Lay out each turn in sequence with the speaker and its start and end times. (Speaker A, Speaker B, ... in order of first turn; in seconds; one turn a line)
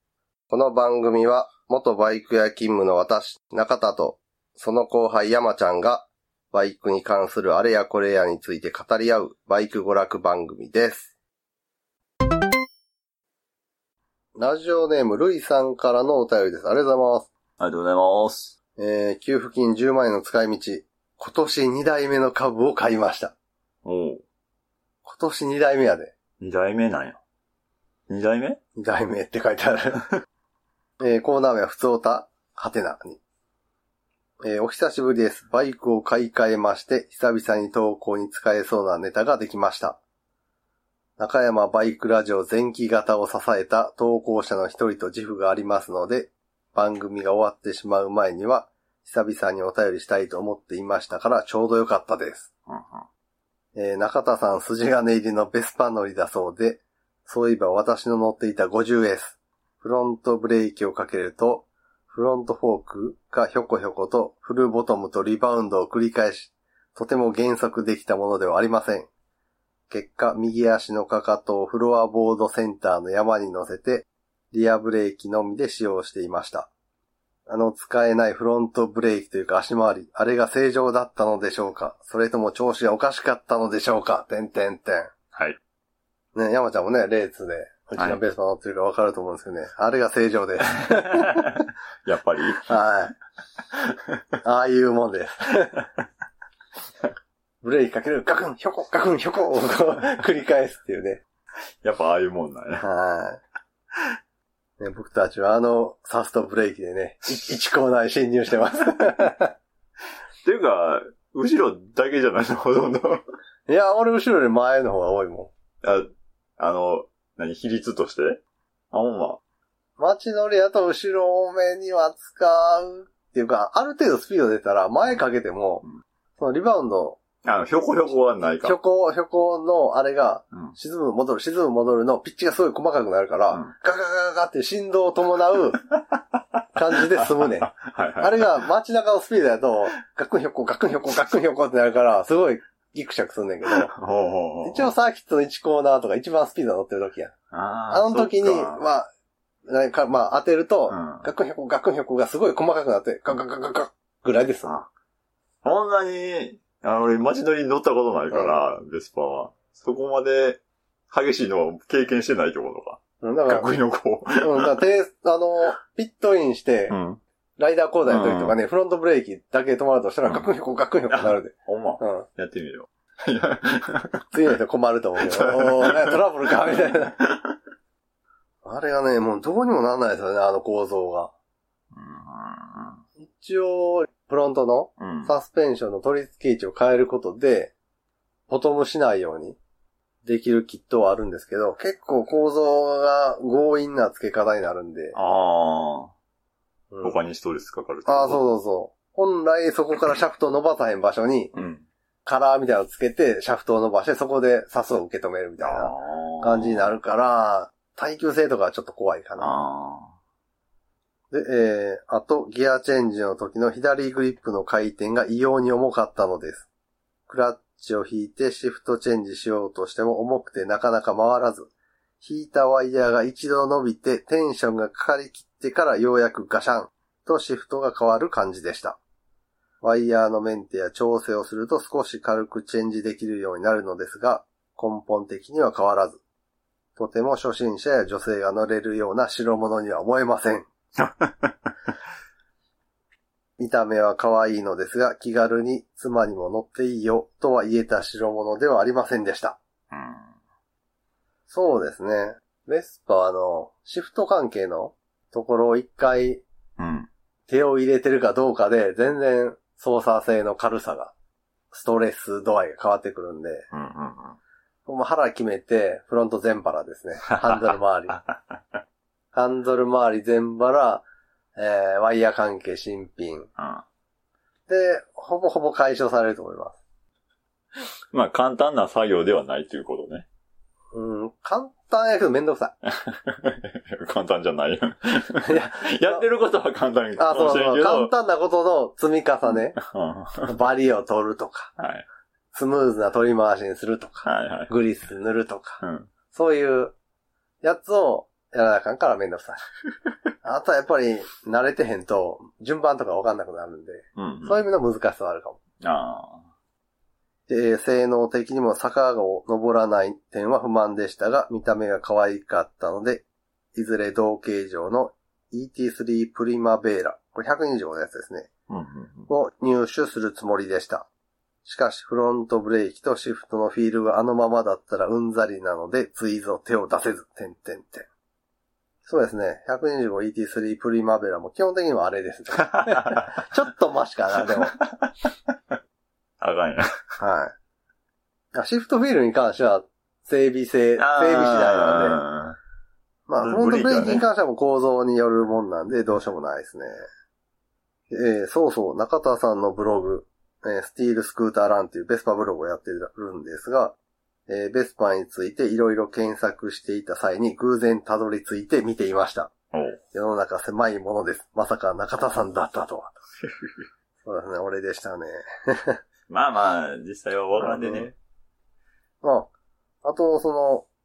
Speaker A: 0.5-11.1
Speaker A: 14.4-17.3
Speaker B: 17.6-18.6
Speaker A: 18.8-23.4
Speaker B: 23.8-24.2
Speaker A: 25.0-26.1
Speaker B: 26.4-27.2
Speaker B: 28.1-28.6
Speaker A: 28.8-30.1
Speaker A: 31.0-33.2
Speaker A: 34.4-40.0
Speaker A: 41.2-52.5
Speaker B: 52.7-53.1
Speaker A: 53.8-69.1
Speaker A: 69.9-76.7
Speaker A: 77.5-85.1
Speaker A: 86.3-91.5
Speaker B: 90.9-92.6
Speaker A: 92.7-93.2
Speaker B: 93.7-94.2
Speaker A: 94.4-95.8
Speaker A: 97.6-101.2
Speaker B: 101.8-102.8
Speaker A: 102.8-103.4
Speaker A: 104.8-109.5
Speaker B: 110.4-113.2
Speaker A: 113.7-115.5
Speaker B: 115.8-119.4
Speaker A: 120.0-125.8
Speaker A: 126.4-127.2
Speaker B: 127.4-128.8
Speaker A: 128.6-135.8
Speaker A: 136.8-143.9
Speaker B: 137.0-138.6
Speaker B: 143.7-144.9
Speaker A: 144.6-147.3
Speaker B: 147.5-148.8
Speaker A: 147.9-149.1
Speaker A: 149.7-154.8
Speaker B: 150.9-151.3
Speaker B: 155.6-164.7
Speaker A: 158.3-158.6
Speaker A: 163.2-163.8
Speaker A: 164.4-166.9
Speaker B: 166.9-167.2
Speaker A: 167.6-172.3
Speaker B: 168.1-168.6
Speaker B: 171.1-174.2
Speaker A: 174.3-177.2
Speaker B: 175.3-177.6
Speaker A: 178.7-181.3
Speaker B: 181.9-183.0
Speaker A: 183.2-187.7
Speaker B: 185.0-185.3
Speaker A: 188.5-189.6
Speaker A: 190.2-195.2
Speaker B: 195.2-196.1
Speaker A: 196.9-197.2
Speaker B: 197.0-198.4
Speaker A: 198.1-201.5
Speaker B: 201.5-201.9
Speaker A: 202.2-209.6
Speaker B: 205.6-206.9
Speaker B: 209.4-210.2
Speaker A: 211.3-216.7
Speaker A: 217.3-229.0
Speaker A: 229.8-236.2
Speaker A: 237.0-240.7
Speaker B: 241.0-241.7
Speaker A: 243.6-249.6
Speaker B: 249.9-250.3
Speaker A: 251.5-256.4
Speaker B: 256.8-257.1
Speaker A: 257.5-261.1
Speaker A: 261.7-263.7
Speaker B: 263.7-264.4
Speaker A: 264.9-268.2
Speaker B: 267.5-268.8
Speaker A: 269.3-271.0
Speaker A: 271.6-273.5
Speaker B: 273.6-273.9
Speaker A: 274.7-276.8
Speaker B: 278.1-280.3
Speaker A: 280.9-282.8
Speaker B: 282.9-288.1
Speaker A: 285.4-286.2
Speaker A: 287.2-289.8
Speaker B: 289.8-290.5
Speaker A: 290.4-291.7
Speaker B: 291.8-292.1
Speaker A: 292.5-296.9
Speaker B: 294.2-294.7
Speaker B: 295.8-296.1
Speaker A: 297.6-299.6
Speaker A: 300.4-305.6
Speaker B: 304.2-304.6
Speaker B: 305.8-306.5
Speaker A: 307.5-318.5
Speaker B: 318.7-319.3
Speaker A: 319.3-321.1
Speaker A: 321.6-328.1
Speaker A: 329.1-334.8
Speaker B: 332.8-333.3
Speaker B: 334.8-335.8
Speaker B: 336.4-336.9
Speaker A: 337.2-337.5
Speaker A: 338.5-342.2
Speaker B: 341.0-342.6
Speaker A: 343.3-346.9
Speaker B: 343.4-344.2
Speaker A: 348.1-354.0
Speaker A: 354.5-359.5
Speaker B: 359.7-360.0
Speaker A: 360.1-363.1
Speaker B: 363.4-363.7
Speaker A: 364.2-366.0
Speaker B: 366.3-368.1
Speaker A: 367.6-368.1
Speaker A: 369.2-369.5
Speaker A: 370.0-370.9